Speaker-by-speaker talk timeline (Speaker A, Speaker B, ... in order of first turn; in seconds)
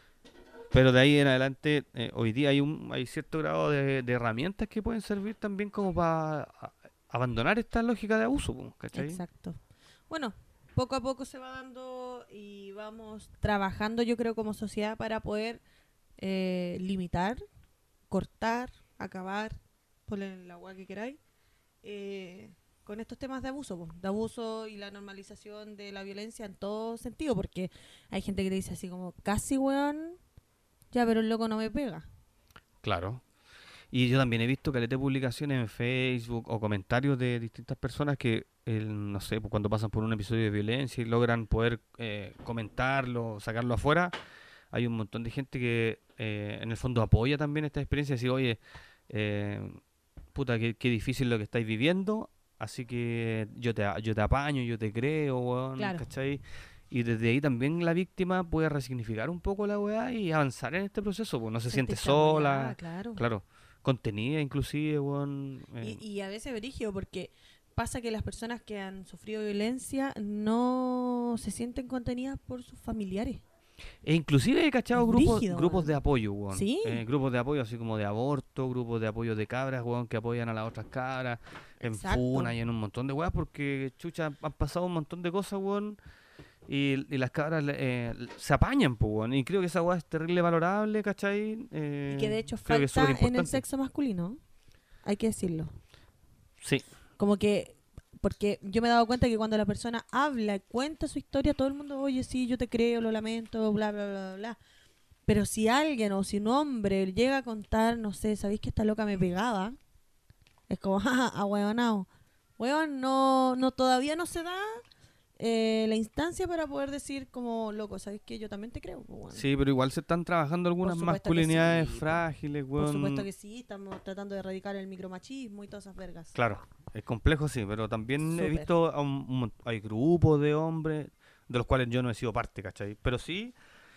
Speaker A: 0.7-9.2, 32.8-33.2, 33.9-44.1, 44.7-49.8, 50.3-66.0, 74.0-86.0, 86.7-93.6, 119.3-123.3, 126.3-133.5
Speaker B: 8.9-15.6, 16.2-17.4, 18.1-21.2, 21.8-30.2, 30.9-32.1, 55.8-56.1, 61.7-63.2, 65.8-73.4, 74.9-76.0, 76.5-77.0, 81.8-82.5, 92.1-94.4, 95.0-95.7, 97.2-104.6, 105.3-109.8, 110.7-114.8, 115.4-119.5, 120.8-122.2, 122.8-126.3, 128.2-128.7